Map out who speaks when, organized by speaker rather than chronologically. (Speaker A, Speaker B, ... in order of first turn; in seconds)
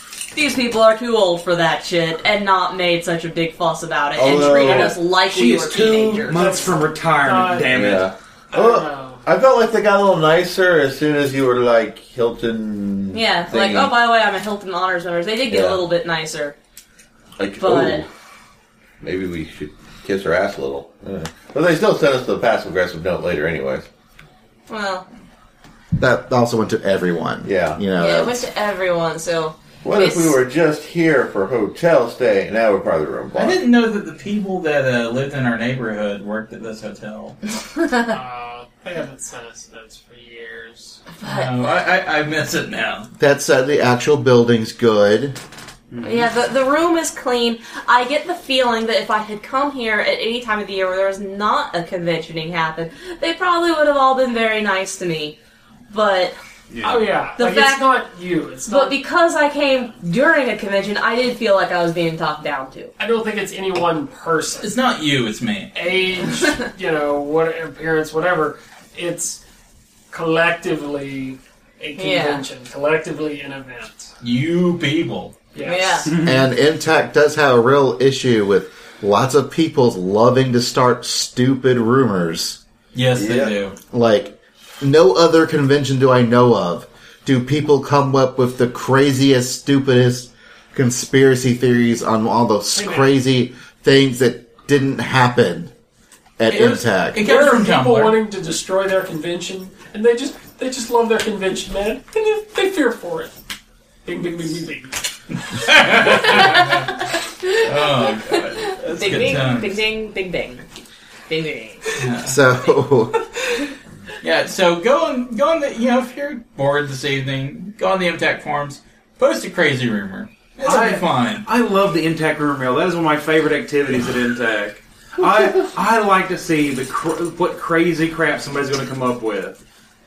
Speaker A: 0.3-6.6, 13.1-16.6, 17.6-18.0, 24.7-25.1, 28.0-30.4, 41.1-41.5, 46.0-55.4, 55.9-56.4, 57.4-57.9, 58.7-62.9, 72.0-72.4, 75.7-76.1, 106.0-110.7, 111.3-111.9
Speaker B: 4.2-5.0, 7.7-13.9, 15.5-15.8, 17.4-18.1, 19.0-23.9, 27.4-27.8, 29.8-33.6, 83.2-83.5
Speaker C: 4.3-5.0, 6.3-7.8, 8.5-9.2, 38.1-41.0, 56.8-59.0, 63.0-64.7, 65.8-69.4, 70.1-74.1, 75.5-76.1, 92.7-93.1, 97.2-103.4, 104.0-105.0
Speaker D: 5.2-8.1, 45.9-46.3, 56.7-57.1, 76.1-76.5, 120.6-129.6
Speaker E: 26.0-28.4, 43.2-45.4, 76.2-82.6, 83.9-95.7, 96.4-97.2, 112.2-113.2
Speaker F: 33.4-37.4, 41.2-43.1, 64.6-65.7, 74.2-75.4, 82.9-83.8, 96.5-98.2, 105.5-106.9, 107.6-109.8, 111.9-112.4, 114.2-121.5